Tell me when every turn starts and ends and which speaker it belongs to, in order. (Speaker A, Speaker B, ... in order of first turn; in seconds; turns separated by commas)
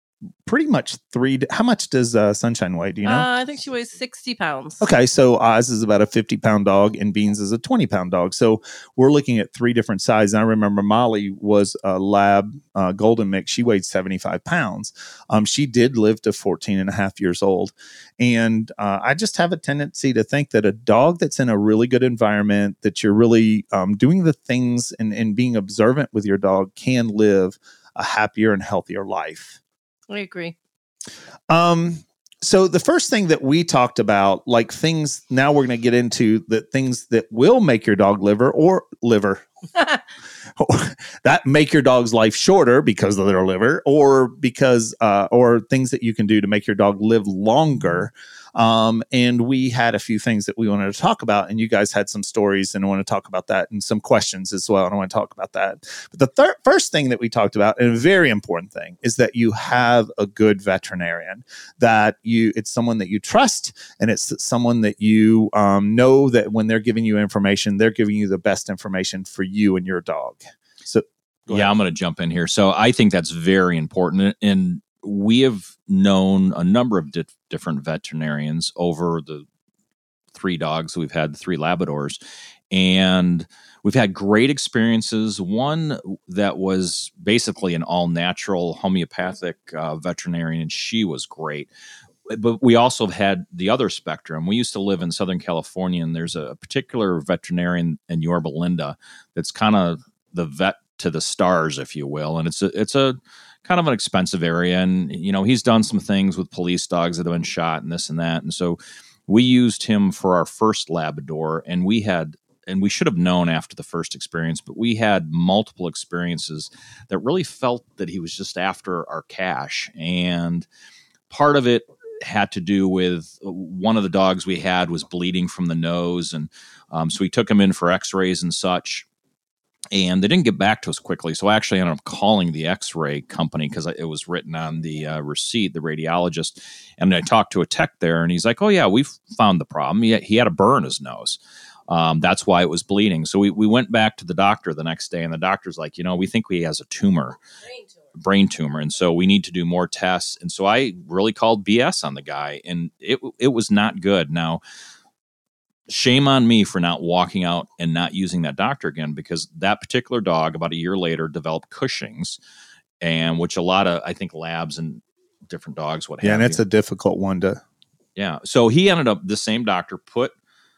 Speaker A: 0.5-3.3, Speaker B: 3.0-4.8, Speaker A: 4.8-29.6, Speaker B: 30.1-30.6, Speaker A: 31.5-39.4, Speaker A: 40.6-71.7, Speaker C: 71.5-79.5, Speaker C: 80.3-82.2, Speaker C: 82.7-91.7, Speaker C: 92.3-120.7, Speaker C: 121.3-129.1, Speaker C: 129.9-141.4, Speaker C: 141.9-147.4, Speaker C: 148.2-154.6, Speaker C: 155.9-162.4, Speaker C: 163.0-166.6, Speaker A: 166.2-167.6, Speaker C: 168.2-170.3